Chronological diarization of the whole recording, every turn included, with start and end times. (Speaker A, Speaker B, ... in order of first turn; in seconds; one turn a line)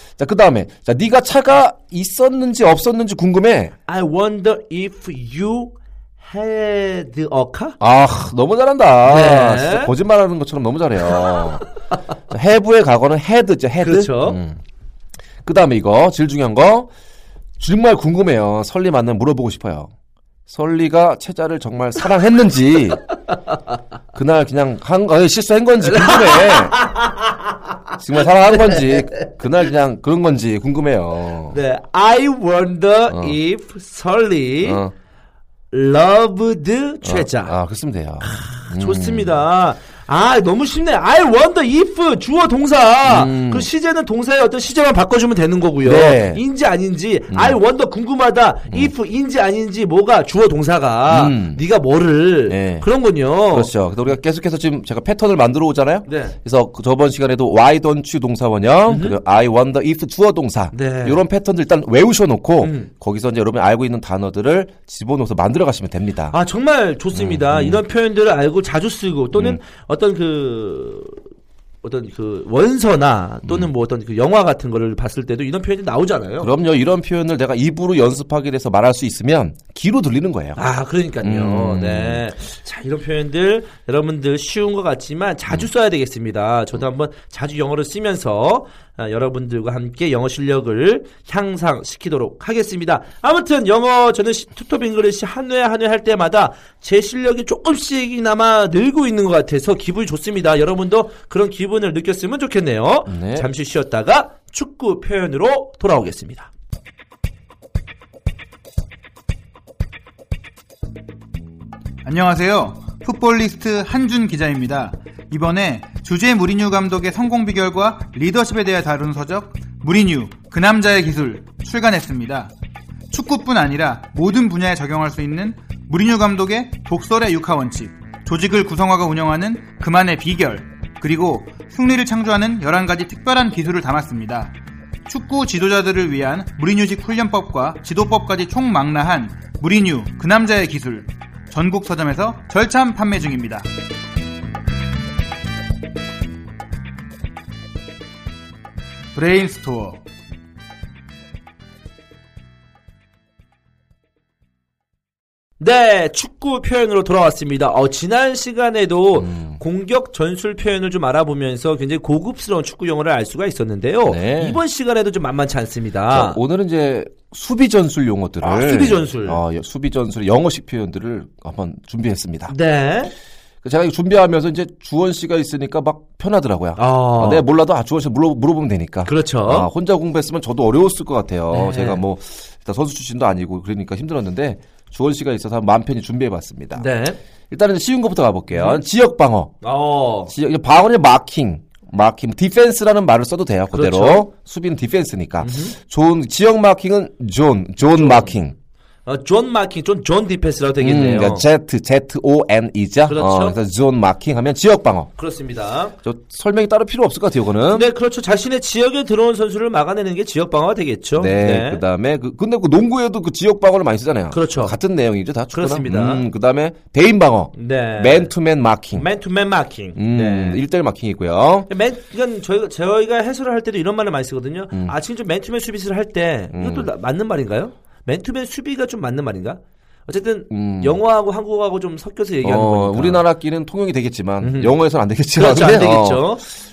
Speaker A: 0.2-3.7
Speaker B: 3.9-7.8
Speaker A: 7.8-11.6
Speaker B: 9.1-9.9
Speaker A: 12.3-14.6
Speaker B: 13.8-14.4
Speaker A: 15.4-16.9
Speaker A: 17.6-19.9
Speaker A: 20.5-23.0
Speaker A: 24.1-26.8
Speaker B: 25.8-27.3
Speaker A: 28.0-31.6
Speaker B: 28.2-29.3
Speaker B: 31.5-34.8
Speaker A: 33.1-33.4
Speaker A: 34.6-34.9
Speaker B: 35.7-37.5
Speaker A: 37.0-39.4
Speaker B: 38.2-53.7
Speaker A: 43.0-43.7
Speaker A: 45.8-46.4
Speaker A: 47.3-47.6
Speaker A: 51.1-51.6
Speaker A: 52.5-52.9
Speaker A: 53.5-66.3
Speaker B: 56.0-56.4
Speaker B: 58.9-59.2
Speaker B: 60.7-61.2
Speaker B: 62.6-62.9
Speaker B: 66.3-71.3
Speaker A: 67.1-67.8
Speaker A: 69.3-69.6
Speaker B: 71.8-76.5
Speaker A: 73.4-73.7
Speaker A: 76.4-80.6
Speaker B: 80.5-106.5
Speaker A: 81.2-82.2
Speaker A: 103.1-103.5
Speaker C: 112.0-122.5
Speaker C: 123.1-134.5
Speaker C: 135.1-143.7
Speaker C: 149.1-150.0
Speaker B: 155.6-166.4
Speaker A: 159.1-159.6
Speaker A: 164.0-164.6
Speaker A: 166.1-172.5
Speaker B: 168.4-169.4
Speaker B: 172.5-173.1
Speaker A: 173.6-186.9
Speaker B: 176.8-177.4
Speaker B: 179.0-179.7
Speaker B: 181.5-182.0
Speaker B: 186.7-187.2
Speaker A: 187.5-189.5
Speaker B: 188.5-188.8
Speaker B: 189.6-190.3
Speaker A: 190.3-198.5
Speaker B: 193.7-194.3
Speaker B: 195.4-195.7
Speaker B: 197.9-198.4
Speaker B: 199.1-201.4
Speaker A: 200.8-205.1
Speaker B: 203.1-203.6
Speaker B: 205.2-205.9
Speaker A: 206.0-207.9
Speaker B: 207.7-211.8
Speaker A: 211.2-219.1
Speaker B: 214.3-214.8
Speaker B: 215.5-216.2
Speaker B: 217.5-218.3
Speaker B: 218.9-220.6
Speaker A: 219.9-221.7
Speaker B: 221.7-233.2
Speaker A: 226.5-226.9
Speaker A: 230.5-231.0
Speaker A: 232.4-236.3
Speaker B: 234.4-234.7
Speaker B: 235.3-236.5